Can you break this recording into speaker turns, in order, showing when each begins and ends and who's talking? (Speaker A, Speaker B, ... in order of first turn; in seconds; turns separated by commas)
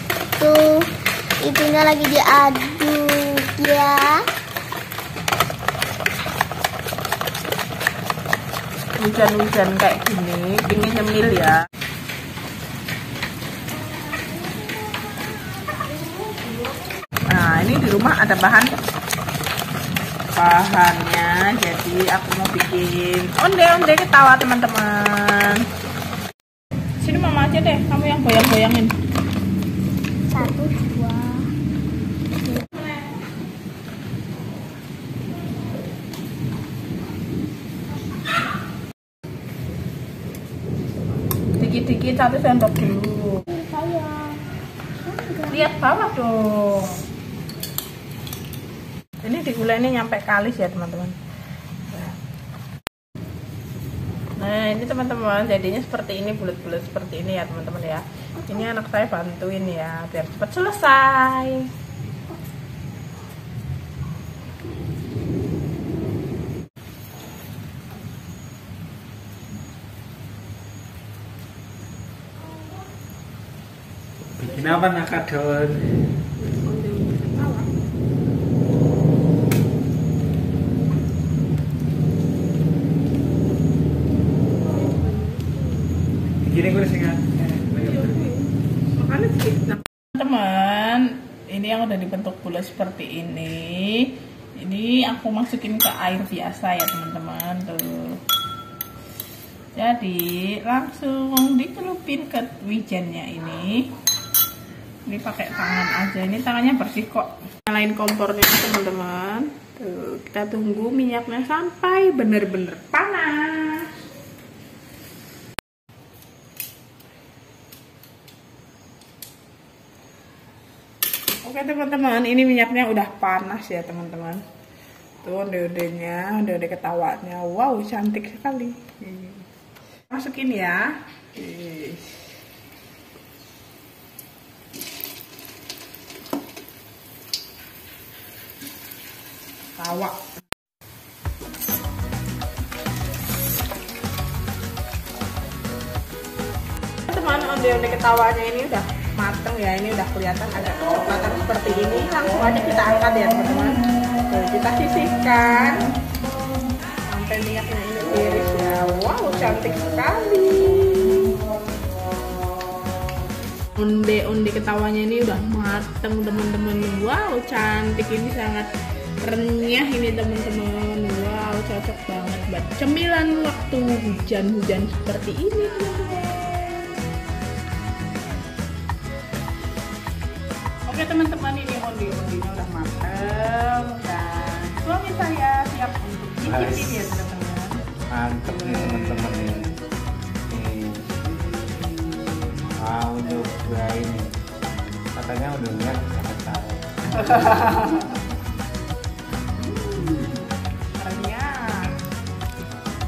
Speaker A: 0.4-0.9, Speaker A: 1.4-4.2, Speaker B: 9.0-11.6, Speaker B: 17.3-18.7, Speaker B: 20.3-25.6, Speaker B: 27.0-28.9, Speaker A: 30.3-31.4, Speaker B: 41.5-43.5, Speaker A: 43.5-44.4, Speaker A: 45.0-45.6, Speaker B: 45.5-47.0, Speaker B: 49.2-51.2, Speaker B: 51.9-52.2, Speaker B: 54.4-61.7, Speaker C: 74.4-75.8, Speaker B: 76.4-77.7, Speaker B: 84.9-85.5, Speaker C: 86.4-87.3, Speaker B: 87.5-98.2, Speaker B: 99.8-103.9, Speaker B: 105.1-113.9, Speaker B: 121.3-124.4, Speaker B: 125.2-129.4, Speaker B: 130.1-132.2, Speaker B: 139.8-140.3, Speaker B: 147.1-155.9, Speaker B: 157.1-161.4, Speaker B: 163.8-168.7, Speaker B: 169.2-176.9, Speaker B: 180.9-187.8, Speaker C: 186.4-186.9, Speaker C: 188.1-189.7, Speaker B: 188.7-189.6, Speaker C: 190.5-191.1, Speaker C: 192.8-196.9, Speaker B: 197.1-198.2, Speaker B: 199.6-200.4, Speaker B: 200.9-202.0